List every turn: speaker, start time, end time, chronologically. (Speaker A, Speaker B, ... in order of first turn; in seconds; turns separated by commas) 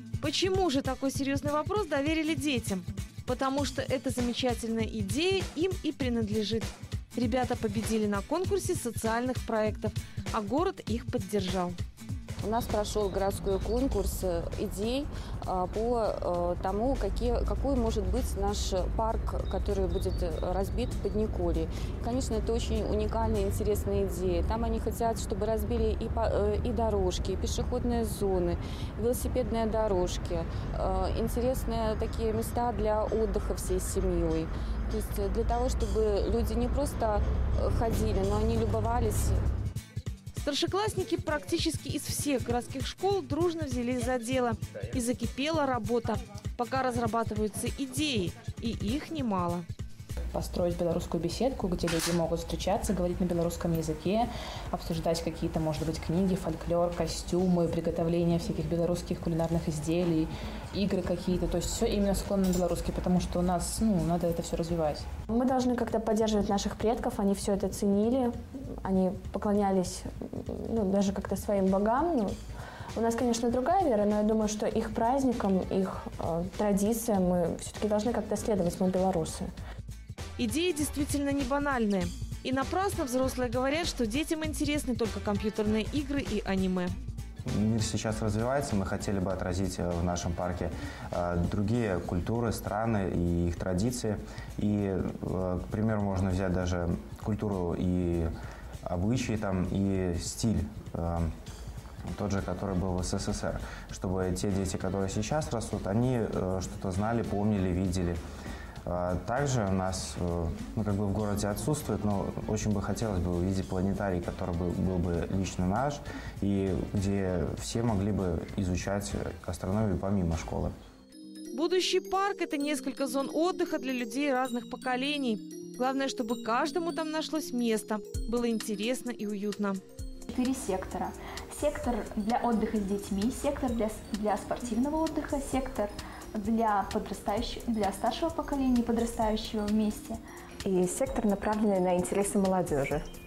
Speaker A: 0.2-11.8, Speaker B: 12.4-39.4, Speaker A: 40.3-49.7, Speaker C: 50.3-65.1, Speaker D: 65.3-72.4, Speaker D: 73.0-79.5, Speaker A: 80.4-86.9, Speaker E: 87.5-98.3, Speaker E: 98.9-101.3, Speaker E: 102.1-108.2, Speaker E: 108.9-120.7, Speaker A: 121.5-129.8, Speaker F: 130.3-140.2, Speaker G: 140.7-143.0